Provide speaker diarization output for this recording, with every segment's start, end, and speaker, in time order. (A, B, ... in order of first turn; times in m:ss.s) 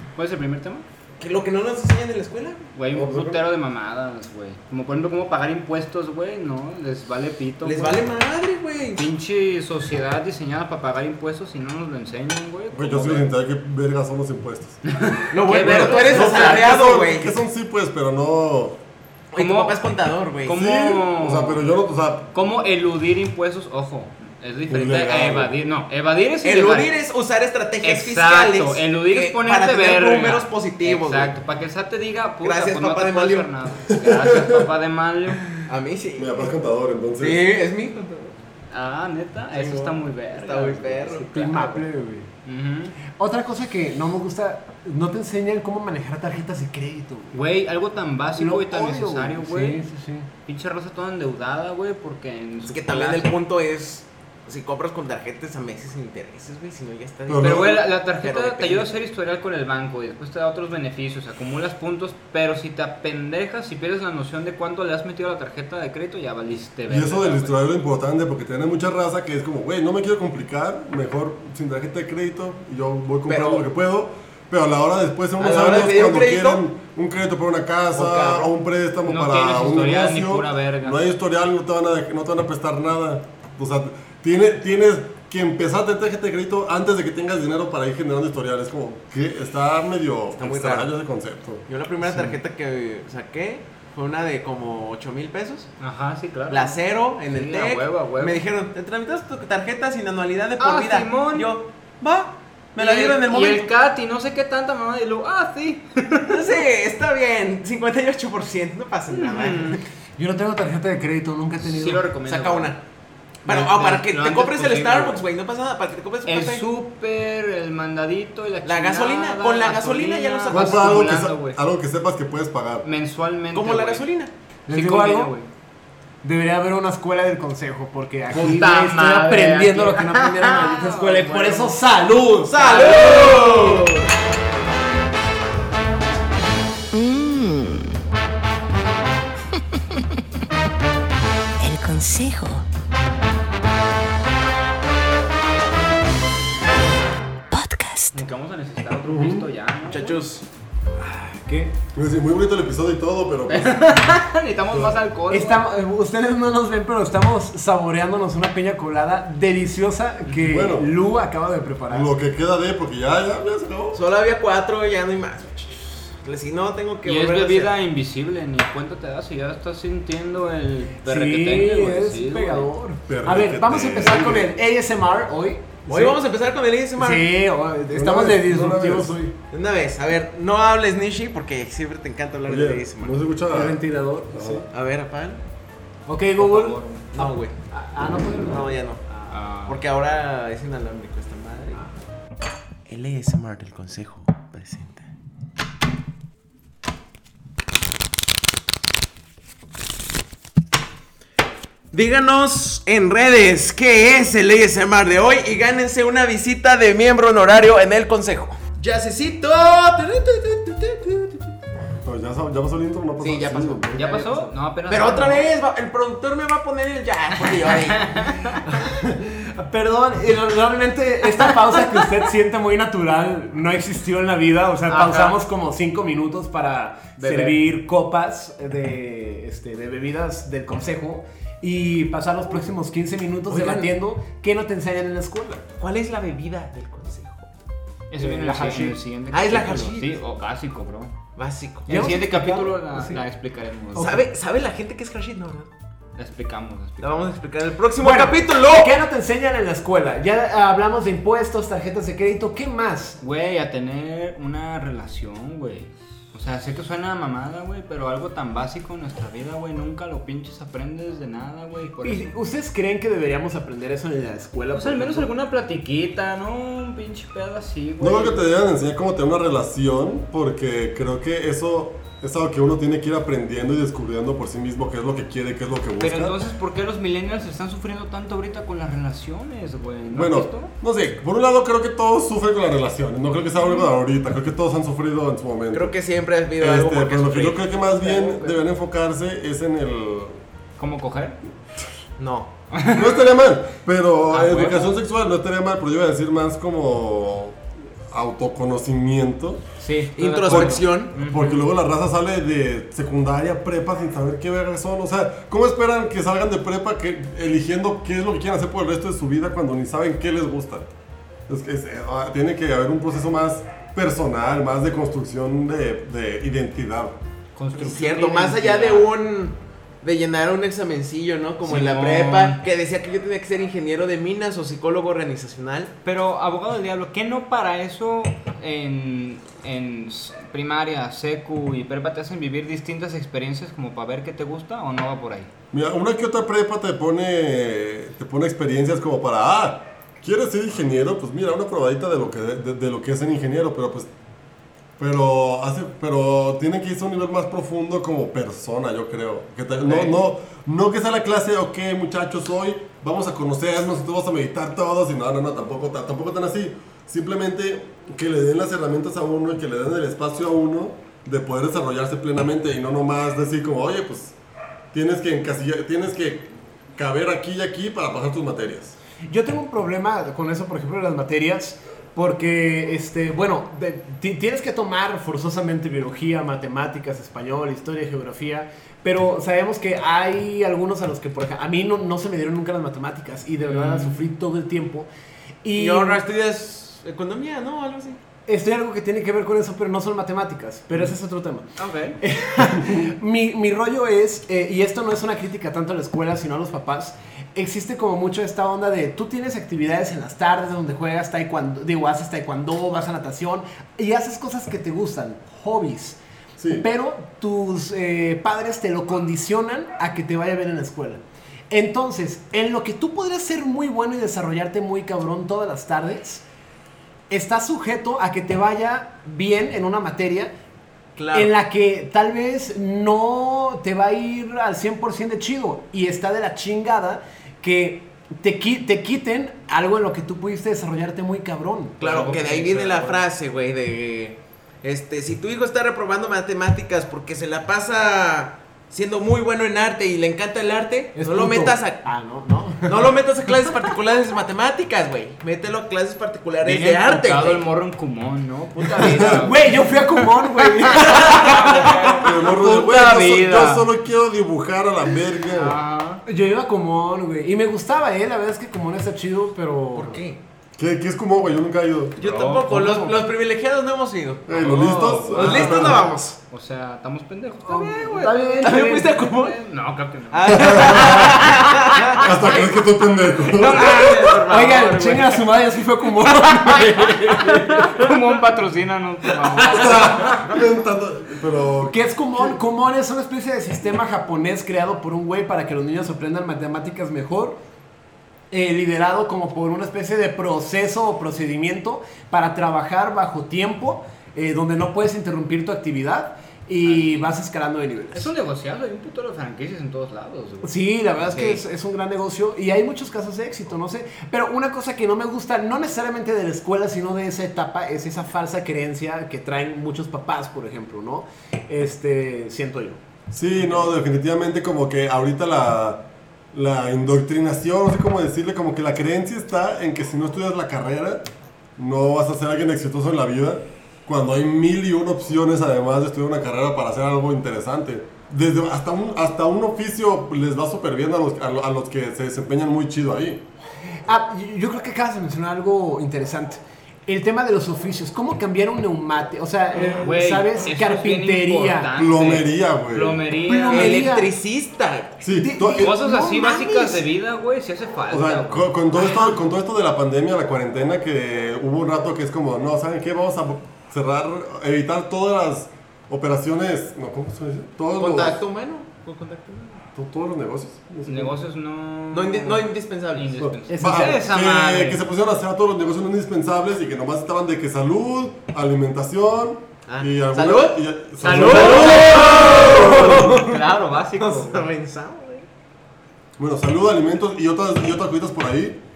0:00.1-0:00.8 A
0:01.2-0:02.7 B
0:02.7-0:08.1 A
0:02.9-0:03.4 C
0:07.6-0:09.1 B
0:09.0-0:13.3 A
0:12.7-0:14.8 C
0:14.8-0:16.7 A
0:15.3-0:17.4 B
0:15.5-0:18.8 C
0:19.3-0:20.6 B
0:19.4-0:19.9 A
0:20.4-0:21.6 A
0:20.5-0:22.3 C
0:22.3-0:27.0 A
0:24.7-0:25.5 C
0:26.4-0:31.3 B
0:27.8-0:35.5 A
0:32.4-0:33.5 B
0:33.9-0:34.6 C
0:35.6-0:36.5 B
0:36.2-0:37.4 C
0:37.2-0:38.4 B
0:38.7-0:41.8 A
0:39.5-0:41.3 B
0:41.3-0:42.3 D
0:42.4-0:43.0 A
0:43.2-0:47.4 D
0:47.3-0:49.8 A
0:48.4-0:50.3 D
0:50.4-0:53.3 A
0:52.7-0:59.0 B
0:57.3-0:57.8 C
0:57.4-1:07.6 A
1:06.9-1:31.6 C
1:13.3-1:13.6 B
1:15.4-1:16.6 B
1:17.9-1:18.5 B
1:19.0-1:21.0 A
1:30.4-1:30.9 B
1:31.7-1:35.7 B
1:35.8-1:38.4 A
1:36.5-1:43.7 B
1:40.6-1:41.5 A
1:42.8-1:46.6 A
1:46.3-1:49.8 B
1:49.1-1:49.8 A
1:50.2-1:52.0 D
1:51.6-1:52.7 A
1:52.2-1:52.8 B
1:53.4-1:55.2 A
1:53.4-1:56.6 B
1:56.2-2:01.6 A
1:58.6-2:00.9 B
2:00.5-2:02.8 C
2:02.8-2:04.0 A
2:03.5-2:04.3 B
2:04.7-2:05.3 D
2:04.7-2:05.5 A
2:06.2-2:12.6 D
2:08.3-2:11.8 A
2:12.4-2:14.1 B
2:12.5-2:13.9 A
2:16.9-2:17.9 E
2:21.6-2:22.6 E
2:27.5-2:28.2 E
2:28.1-2:30.2 A
2:29.0-2:29.5 C
2:29.9-2:30.4 B
2:31.0-2:31.7 D
2:31.9-2:34.1 C
2:33.5-2:35.6 A
2:35.3-2:42.1 D
2:40.4-2:40.9 C
2:41.9-2:44.0 C
2:43.9-2:47.7 B
2:47.0-2:52.7 A
2:51.0-2:56.1 D
2:53.1-2:54.5 C
2:55.9-2:57.3 B
2:57.0-2:59.3 D
2:57.9-2:59.2 C
2:59.5-3:03.2 B
3:02.5-3:03.8 C
3:03.5-3:04.6 D
3:04.3-3:04.6 C
3:04.7-3:05.4 B
3:06.0-3:09.3 D
3:06.4-3:07.1 A
3:07.1-3:07.5 B
3:08.4-3:09.0 B
3:09.3-3:09.8 A
3:09.7-3:11.8 B
3:12.9-3:15.1 B
3:21.9-3:31.5 B
3:32.0-3:33.9 C
3:33.2-3:38.8 B
3:33.9-3:35.5 A
3:37.6-3:38.6 A
3:38.7-3:55.6 D
3:44.9-3:45.4 A
3:47.2-3:47.5 A
3:47.2-3:47.5 B
3:53.5-3:53.9 B
3:55.8-3:57.5 B
3:58.1-4:01.1 A
3:58.2-3:59.0 D
3:59.3-4:00.2 B
4:01.4-4:01.9 B
4:01.9-4:03.2 D
4:01.9-4:04.2 A
4:03.9-4:04.3 D
4:04.0-4:05.7 B
4:06.2-4:07.2 A
4:07.0-4:08.9 B
4:08.0-4:13.2 D
4:13.2-4:22.3 A
4:22.0-4:25.3 D
4:24.7-4:28.5 A
4:28.0-4:36.3 C
4:36.0-4:40.7 A
4:40.1-4:45.9 C
4:45.7-4:48.4 B
4:46.6-4:50.4 C
4:48.1-4:48.5 A
4:50.8-4:51.4 A
4:52.2-4:52.5 B
4:52.7-4:53.2 A
4:52.9-4:59.6 C
4:54.3-4:54.9 A
4:59.8-5:01.7 A
5:00.2-5:01.1 B
5:00.4-5:10.9 C
5:11.5-5:17.2 C
5:17.5-5:19.1 A
5:17.8-5:25.9 B
5:21.6-5:22.6 A
5:26.0-5:35.5 A
5:35.7-5:44.1 C
5:45.0-6:04.4 C
5:49.9-5:50.1 A
6:04.9-6:09.0 C
6:09.3-6:25.1 D
6:23.6-6:24.3 A
6:25.6-6:26.2 D
6:25.7-6:28.2 B
6:28.5-6:31.7 D
6:31.8-6:32.2 A
6:32.2-6:46.2 D
6:46.6-6:46.8 C
6:46.7-6:56.4 D
6:57.3-7:00.5 D
7:01.2-7:01.5 B
7:01.3-7:12.4 D
7:12.0-7:22.0 B
7:12.0-7:13.2 A
7:21.1-7:23.8 D
7:22.8-7:27.6 B
7:26.6-7:29.9 A
7:29.0-7:32.0 D
7:29.0-7:29.4 C
7:30.9-7:32.1 B
7:30.9-7:33.9 A
7:32.2-7:35.8 C
7:35.5-7:36.2 A
7:36.2-7:40.2 D
7:39.9-7:40.4 B
7:40.8-7:42.2 C
7:42.2-7:43.2 A
7:42.2-7:46.4 B
7:44.5-7:46.1 C
7:44.5-7:51.2 A
7:47.7-7:49.6 B
7:47.7-7:49.1 D
7:50.3-7:52.6 B
7:50.5-7:51.5 C
7:52.2-7:53.9 C
7:53.4-7:55.4 B
7:53.6-7:58.1 D
7:57.5-7:57.9 B
7:57.9-8:00.4 A
7:59.6-8:00.4 D
7:59.7-8:02.0 C
8:01.8-8:07.6 D
8:08.5-8:18.3 D
8:16.8-8:17.3 A
8:18.1-8:20.7 A
8:20.6-8:33.0 D
8:21.2-8:21.6 A
8:33.3-8:41.2 C
8:41.8-8:53.4 C
8:54.0-9:01.9 D
9:00.0-9:04.0 A
9:01.9-9:03.2 C
9:03.4-9:04.3 D
9:03.7-9:05.2 B
9:05.2-9:05.9 C
9:05.3-9:07.0 D
9:05.7-9:09.3 A
9:08.1-9:18.4 C
9:18.0-9:19.8 B
9:19.9-9:21.4 C
9:21.0-9:25.0 A
9:22.1-9:23.3 B
9:23.4-9:33.5 C
9:23.7-9:24.2 D
9:29.9-9:33.6 B
9:31.2-9:34.7 A
9:34.1-9:35.4 B
9:36.4-9:38.8 C